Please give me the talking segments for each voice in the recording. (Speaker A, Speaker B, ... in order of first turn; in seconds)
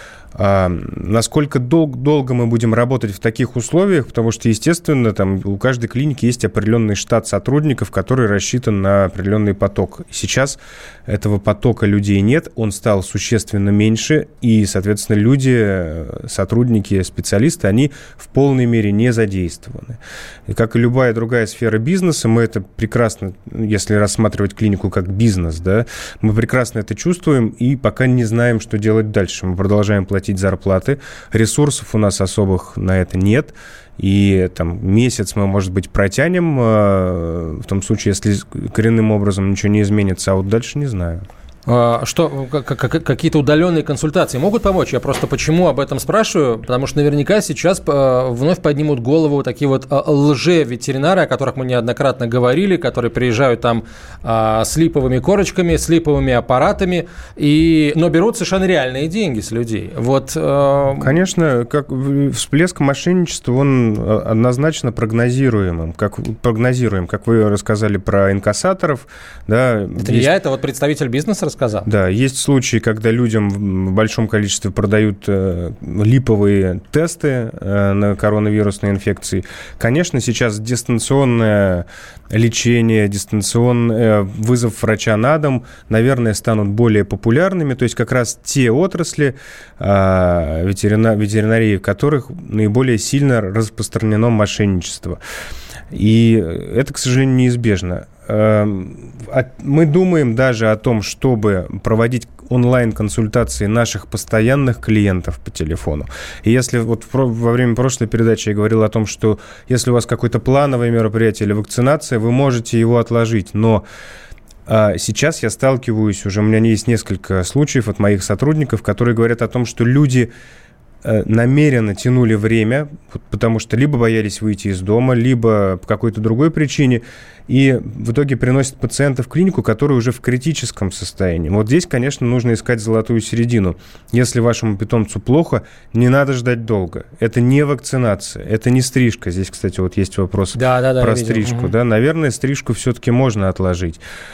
Speaker A: 0.3-41.2, 61.0-70.3, 71.8-95.2, 95.9-113.8, 114.7-120.3, 121.0-144.0
Speaker B: 41.7-61.1, 70.0-71.9, 140.5-141.7